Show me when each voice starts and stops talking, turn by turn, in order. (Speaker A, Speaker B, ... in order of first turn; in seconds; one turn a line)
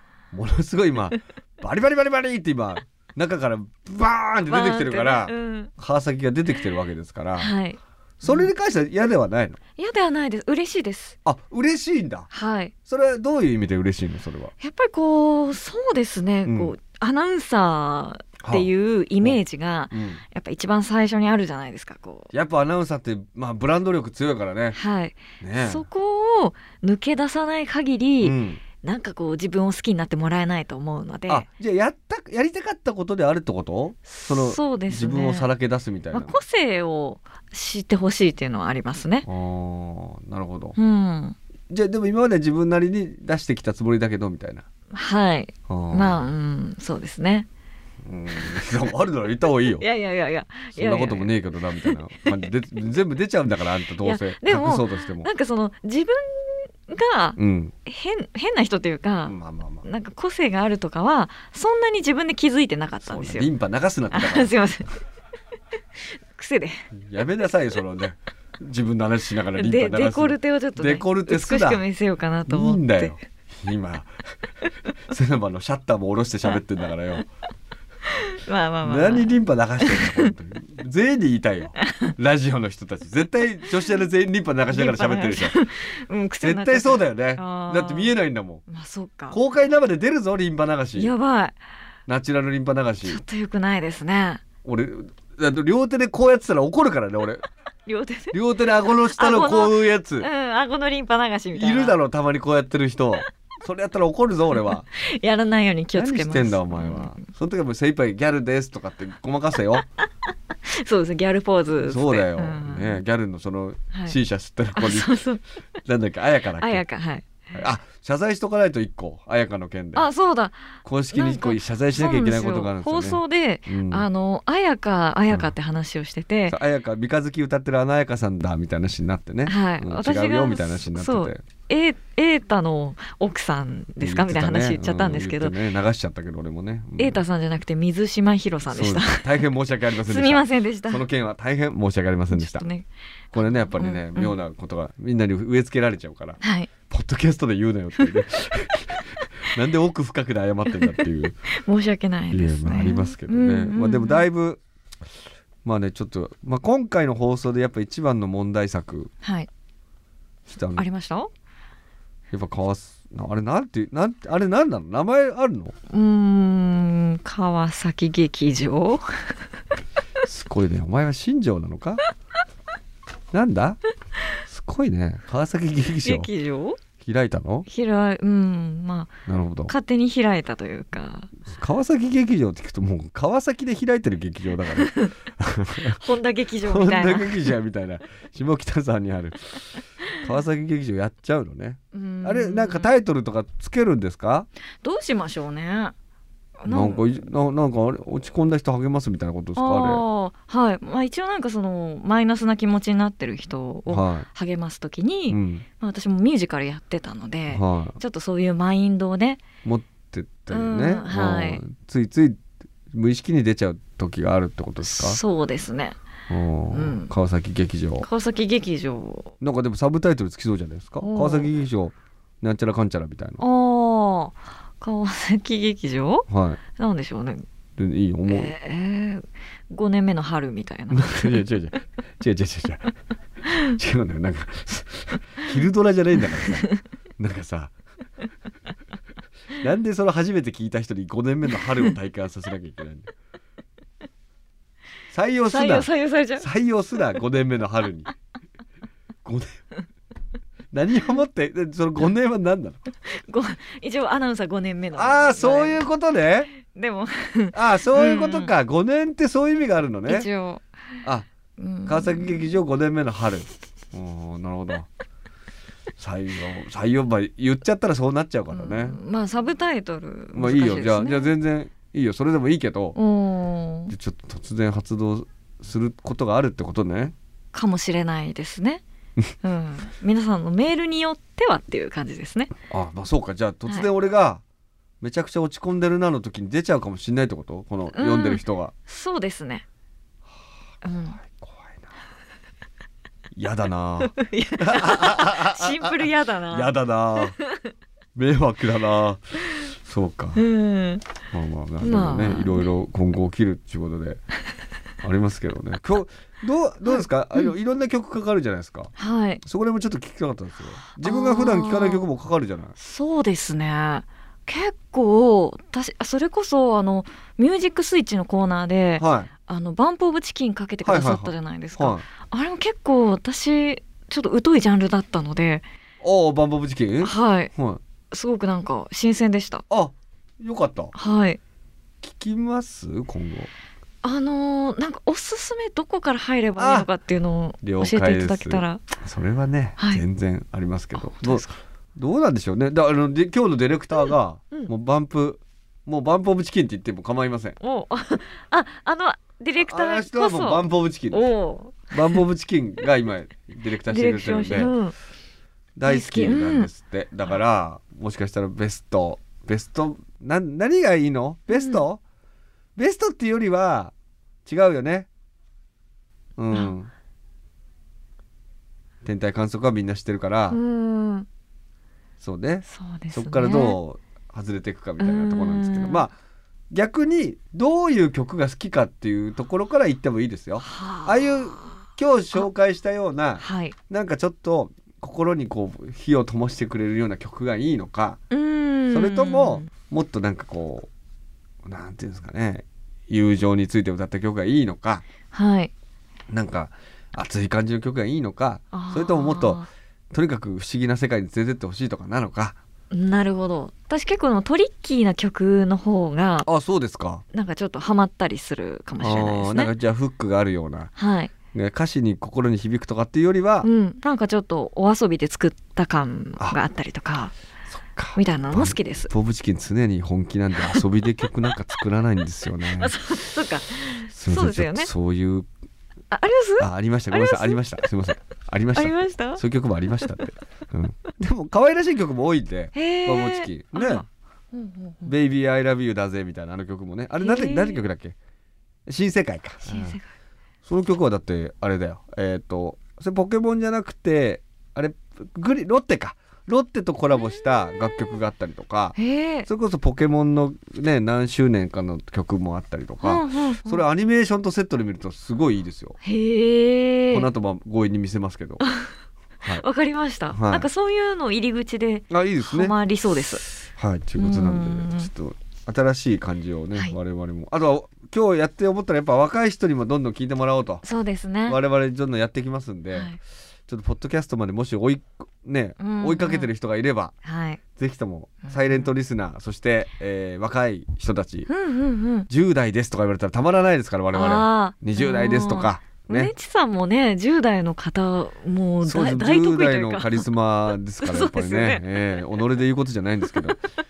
Speaker A: 0.3-7.5
Speaker B: 4.5-5.7
Speaker B: 7.4-8.5
Speaker A: 8.2-9.6
Speaker B: 9.8-11.2
Speaker A: 11.2-12.3
Speaker B: 12.3-12.7
Speaker A: 12.9-14.5
Speaker B: 14.6-22.3
Speaker A: 16.4-16.7
Speaker A: 18.4-18.7
Speaker A: 19.9-20.2
Speaker A: 22.3-24.8
Speaker B: 24.7-31.5
Speaker A: 25.4-25.9
Speaker A: 28.2-28.6
Speaker A: 31.3-36.4
Speaker B: 34.1-35.5
Speaker B: 36.1-39.3
Speaker A: 39.2-40.8
Speaker B: 40.8-41.4
Speaker A: 41.7-44.6
Speaker B: 44.9-47.5
Speaker A: 45.7-46.2
Speaker A: 48.0-49.9
Speaker B: 49.8-52.5
Speaker A: 50.7-55.3
Speaker B: 54.0-63.5
Speaker A: 57.4-57.7
Speaker A: 59.3-59.9
Speaker A: 63.0-64.5
Speaker B: 64.1-65.0
Speaker B: 66.3-66.9
Speaker A: 66.9-71.8
Speaker B: 69.5-73.2
Speaker A: 72.5-74.2
Speaker A: 75.1-77.3
Speaker B: 78.2-80.3
Speaker A: 78.8-85.6
Speaker B: 81.8-82.1
Speaker B: 84.7-89.4
Speaker A: 86.4-88.6
Speaker A: 89.3-91.1
Speaker B: 91.0-91.6
Speaker A: 92.1-93.2
Speaker B: 93.0-94.4
Speaker A: 94.6-97.4
Speaker B: 97.9-98.4
Speaker A: 98.3-100.3
Speaker B: 99.2-102.0
Speaker A: 101.5-104.9
Speaker B: 104.9-107.2
Speaker A: 106.0-109.8
Speaker B: 110.7-113.0
Speaker A: 111.8-115.2
Speaker B: 113.9-114.2
Speaker B: 114.8-115.4
Speaker A: 115.8-116.8
Speaker B: 116.6-117.4
Speaker A: 117.5-120.1
Speaker B: 119.9-126.6
Speaker A: 120.8-124.1
Speaker A: 126.5-131.4
Speaker B: 129.5-135.6
Speaker A: 134.0-137.2
Speaker B: 137.0-139.4
Speaker A: 138.7-142.7
Speaker B: 140.0-141.0
Speaker B: 142.3-144.3
Speaker A: 143.3-151.4
Speaker B: 146.4-146.7
Speaker B: 151.5-154.3
Speaker A: 152.3-154.6
Speaker A: 155.6-159.1
Speaker B: 159.2-159.5
Speaker A: 160.5-160.9
Speaker B: 160.8-161.3
Speaker A: 162.3-165.8
Speaker B: 165.9-169.4
Speaker A: 170.2-172.1
Speaker A: 173.3-173.8
Speaker A: 174.4-176.3
Speaker B: 176.0-176.8
Speaker A: 177.0-177.7
Speaker B: 177.7-181.3
Speaker A: 179.3-179.7
Speaker A: 181.4-186.0
Speaker B: 184.7-185.2
Speaker B: 185.8-187.5
Speaker A: 186.6-194.5
Speaker B: 191.9-192.9
Speaker B: 194.8-195.9
Speaker B: 196.6-197.1
Speaker A: 196.7-200.0
Speaker B: 199.6-209.4
Speaker A: 203.9-204.3
Speaker A: 205.3-205.7
Speaker A: 207.5-208.0
Speaker A: 209.6-212.4
Speaker B: 210.5-211.6
Speaker A: 212.9-215.2
Speaker B: 214.8-216.0
Speaker A: 216.3-218.1
Speaker B: 216.7-217.1
Speaker B: 218.0-219.3
Speaker A: 219.4-223.4
Speaker B: 221.0-221.5
Speaker B: 223.4-227.4
Speaker A: 226.3-226.6
Speaker A: 227.8-228.5
Speaker B: 228.3-231.4
Speaker A: 230.9-232.9
Speaker A: 233.6-236.7
Speaker B: 236.4-236.8
Speaker A: 237.2-237.7
Speaker A: 239.6-243.1
Speaker A: 245.1-248.1
Speaker B: 245.5-246.5
Speaker A: 249.2-249.6
Speaker A: 250.7-252.8
Speaker B: 253.1-255.9
Speaker A: 254.9-256.5
Speaker B: 256.6-258.5
Speaker A: 257.5-260.3
Speaker B: 260.1-260.7
Speaker B: 261.6-262.5
Speaker A: 261.9-264.9
Speaker A: 266.0-269.0
Speaker B: 268.5-271.3
Speaker A: 270.3-273.0
Speaker B: 272.9-273.9
Speaker A: 273.9-277.1
Speaker B: 277.5-278.8
Speaker B: 279.4-282.5
Speaker A: 282.7-284.4
Speaker A: 285.0-288.7
Speaker B: 287.9-289.6
Speaker B: 290.8-291.2
Speaker A: 291.0-291.9
Speaker A: 293.4-297.4
Speaker B: 294.0-297.7
Speaker A: 298.1-300.4
Speaker B: 300.4-301.1
Speaker A: 301.3-304.2
Speaker B: 301.8-302.7
Speaker A: 305.0-308.9
Speaker B: 306.9-307.5
Speaker B: 309.0-309.4
Speaker A: 309.4-312.8
Speaker B: 311.0-312.0
Speaker B: 312.8-325.6
Speaker A: 319.0-319.3
Speaker A: 320.8-322.1
Speaker A: 326.0-327.8
Speaker B: 327.0-327.5
Speaker B: 328.1-329.6
Speaker A: 329.7-330.9
Speaker B: 330.9-331.4
Speaker A: 332.0-333.5
Speaker B: 334.0-338.8
Speaker A: 336.6-336.9
Speaker A: 337.6-341.4
Speaker B: 339.8-340.0
Speaker B: 341.0-341.6
Speaker A: 342.0-347.6
Speaker B: 347.6-352.2
Speaker A: 349.6-351.2
Speaker A: 351.9-354.7
Speaker B: 353.9-354.9
Speaker A: 355.8-362.0
Speaker B: 355.9-356.7
Speaker B: 361.5-361.8
Speaker A: 362.8-363.9
Speaker A: 364.4-365.1
Speaker A: 366.4-366.9
Speaker A: 369.0-370.6
Speaker B: 370.5-371.3
Speaker A: 372.2-376.1
Speaker B: 372.7-373.8
Speaker B: 375.0-376.1
Speaker A: 376.7-388.2
Speaker B: 380.6-381.8
Speaker B: 383.4-383.8
Speaker B: 388.3-389.7
Speaker A: 388.9-390.9
Speaker A: 391.6-395.0
Speaker B: 395.3-395.7
Speaker A: 396.3-402.6
Speaker B: 398.7-399.7
Speaker B: 402.9-406.5
Speaker A: 406.4-407.2
Speaker B: 407.3-409.7
Speaker A: 409.0-410.9
Speaker B: 411.0-411.3
Speaker A: 411.5-413.7
Speaker B: 413.6-417.4
Speaker A: 417.7-422.9
Speaker B: 418.1-419.1
Speaker B: 422.7-424.9
Speaker A: 424.1-425.5
Speaker B: 426.1-427.8
Speaker A: 426.6-434.1
Speaker B: 428.7-429.4
Speaker B: 432.7-435.1
Speaker A: 435.1-438.2
Speaker B: 437.2-437.9
Speaker A: 438.9-440.0
Speaker B: 439.6-440.1
Speaker A: 440.6-456.0
Speaker B: 447.1-448.2
Speaker B: 448.9-449.5
Speaker B: 453.0-453.8
Speaker B: 456.0-457.3
Speaker A: 457.1-458.7
Speaker B: 458.6-458.9
Speaker B: 459.4-463.5
Speaker A: 460.3-460.7
Speaker A: 462.1-462.7
Speaker A: 463.8-470.9
Speaker B: 464.2-465.1
Speaker B: 470.8-471.6
Speaker A: 471.5-477.1
Speaker B: 472.9-473.2
Speaker B: 475.8-476.5
Speaker B: 477.2-477.6
Speaker A: 477.8-481.5
Speaker B: 478.5-478.9
Speaker B: 481.5-482.3
Speaker A: 482.3-486.3
Speaker B: 484.1-490.3
Speaker A: 488.8-493.6
Speaker B: 491.0-491.9